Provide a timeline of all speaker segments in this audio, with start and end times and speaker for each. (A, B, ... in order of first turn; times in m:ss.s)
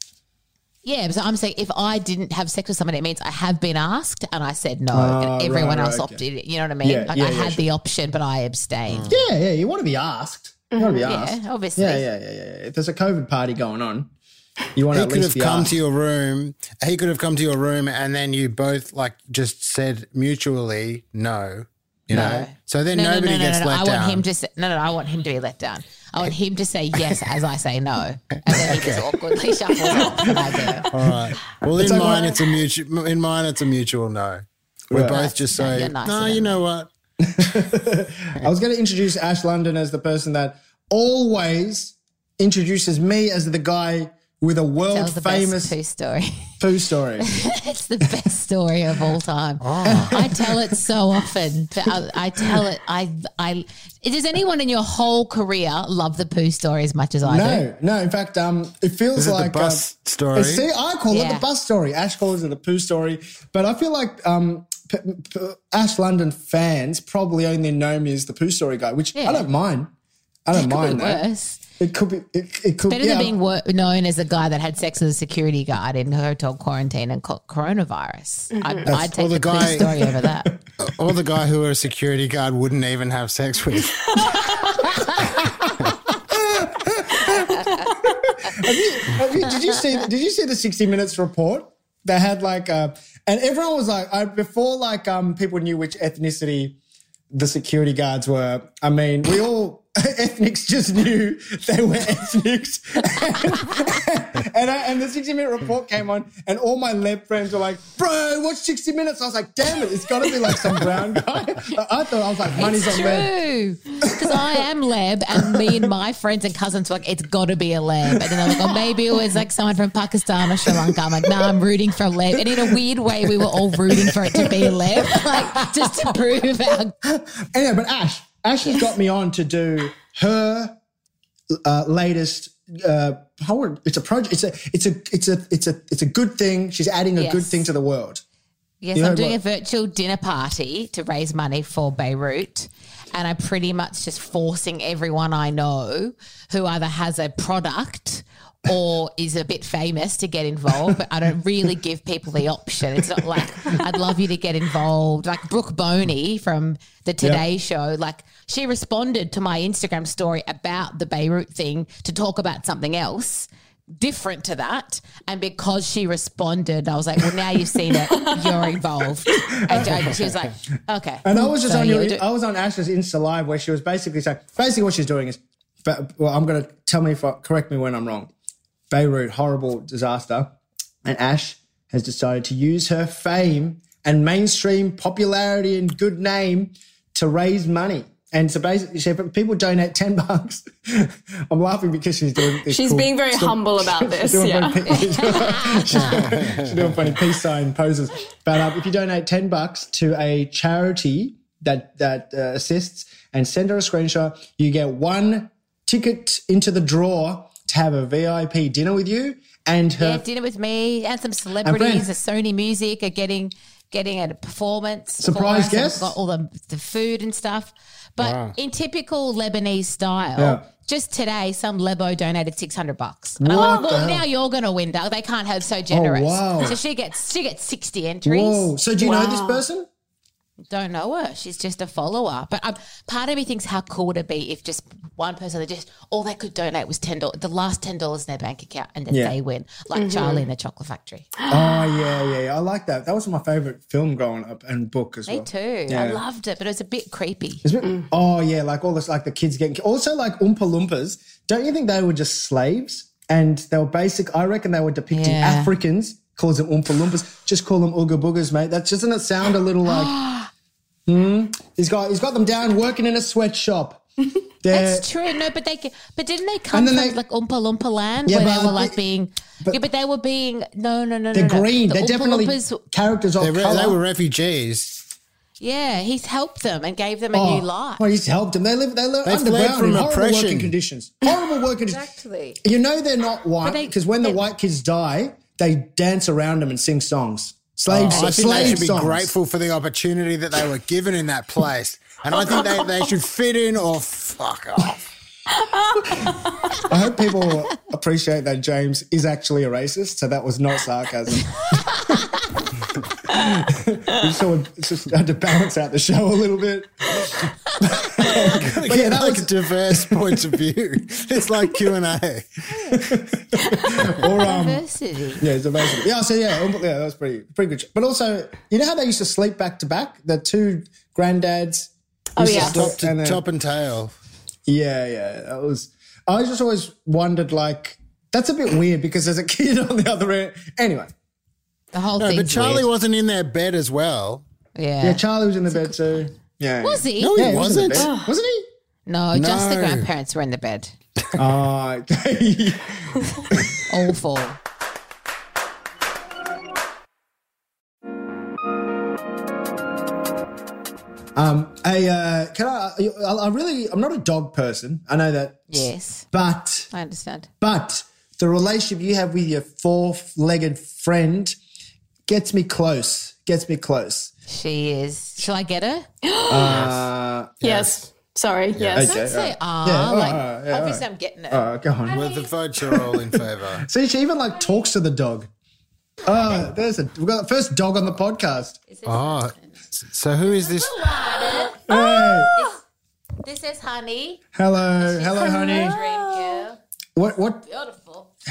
0:00.8-0:09.1 A
0:04.9-0:06.2 B
0:06.8-0:07.6 B
0:08.9-0:09.2 C
0:09.1-0:14.1 B
0:10.7-0:11.1 D
0:11.0-0:12.0 A
0:14.7-0:15.8 B
0:14.9-0:24.2 C
0:22.1-0:30.9 A
0:22.1-0:22.4 B
0:28.6-0:29.1 C
0:30.9-0:36.9 C
0:31.8-0:32.5 B
0:34.9-0:35.2 B
0:35.1-0:36.6 A
0:37.2-0:45.8 B
0:44.9-0:46.5 A
0:46.6-0:47.3 B
0:47.2-0:57.7 A
0:49.6-0:50.1 C
0:49.8-0:50.6 B
0:57.2-1:09.9 B
0:59.2-1:00.6 C
1:01.1-1:01.4 A
1:09.1-1:09.5 A
1:10.4-1:11.2 B
1:10.5-1:11.6 A
1:11.8-1:13.3 B
1:12.9-1:20.5 A
1:18.6-1:18.9 D
1:19.0-1:20.0 C
1:20.0-1:20.5 B
1:20.8-1:24.1 C
1:24.3-1:36.8 B
1:27.5-1:27.9 A
1:37.3-1:53.3 B
1:52.5-2:06.9 A
1:54.1-1:54.5 B
2:00.7-2:00.9 B
2:04.0-2:05.7 B
2:07.0-2:10.7 B
2:11.6-2:18.2 B
2:17.2-2:17.7 A
2:18.8-2:52.2 A
2:18.9-2:19.4 B
2:49.3-2:50.1 B
2:51.2-2:58.3 B
2:58.9-3:00.5 B
3:01.0-3:30.2 B
3:12.7-3:15.1 D
3:14.9-3:16.4 A
3:16.1-3:16.4 C
3:30.0-3:48.7 A
3:31.6-3:32.1 B
3:35.2-3:36.2 B
3:38.2-3:38.5 C
3:40.4-3:40.6 B
3:43.4-3:44.2 B
3:43.5-3:43.9 D
3:45.9-3:46.8 B
3:48.2-3:49.9 B
3:49.0-3:49.6 D
3:50.7-4:01.3 A
3:59.1-3:59.3 B
3:59.9-4:00.4 D
4:01.5-4:06.2 B
4:01.5-4:02.0 D
4:05.3-4:07.6 A
4:07.6-4:20.2 B
4:15.1-4:15.7 A
4:19.8-4:20.5 A
4:21.1-4:24.0 B
4:24.6-4:25.0 B
4:24.7-4:32.8 A
4:26.7-4:27.2 B
4:28.2-4:29.0 B
4:31.3-4:34.0 B
4:33.4-4:35.0 C
4:35.6-4:38.0 A
4:37.3-4:42.0 B
4:39.2-4:40.7 C
4:41.9-4:42.6 A
4:42.6-4:49.3 B
4:43.6-4:44.4 A
4:47.9-4:55.0 C
4:48.0-4:48.9 A
4:52.4-4:53.0 D
4:55.6-4:56.4 D
4:56.9-5:02.1 B
5:03.3-5:10.5 B
5:03.3-5:03.6 D
5:08.1-5:12.6 C
5:12.7-5:13.1 A
5:12.9-5:14.8 B
5:13.6-5:14.0 D
5:14.4-5:15.5 A
5:15.4-5:23.4 B
5:22.3-5:22.6 D
5:22.4-5:24.1 C
5:22.5-5:22.9 A
5:24.7-5:31.1 B
5:31.9-5:32.9 A
5:32.2-5:34.4 C
5:34.7-5:36.2 A
5:35.0-5:38.6 B
5:36.8-5:37.5 A
5:37.2-5:38.1 C
5:37.9-5:38.3 D
5:39.0-5:40.9 A
5:39.3-5:40.1 C
5:41.4-5:43.8 B
5:43.9-5:44.6 A
5:51.4-5:56.9 B
5:55.7-5:56.2 A
5:56.9-5:57.5 A
5:57.6-6:01.6 B
6:02.3-6:04.3 B
6:04.5-6:06.0 A
6:06.2-6:06.8 D
6:06.5-6:07.7 B
6:06.6-6:07.1 C
6:07.6-6:09.2 D
6:08.8-6:09.0 C
6:08.8-6:12.2 B
6:09.0-6:12.4 A
6:12.1-6:13.8 C
6:12.8-6:15.5 B
6:16.2-6:18.8 B
6:18.9-6:19.8 A
6:19.0-6:20.9 C
6:20.4-6:21.8 A
6:21.9-6:22.5 B
6:21.9-6:22.6 D
6:22.5-6:22.8 A
6:23.4-6:24.4 A
6:24.6-6:26.0 B
6:25.0-6:26.8 A
6:25.3-6:26.6 D
6:27.2-6:27.6 B
6:27.6-6:28.3 A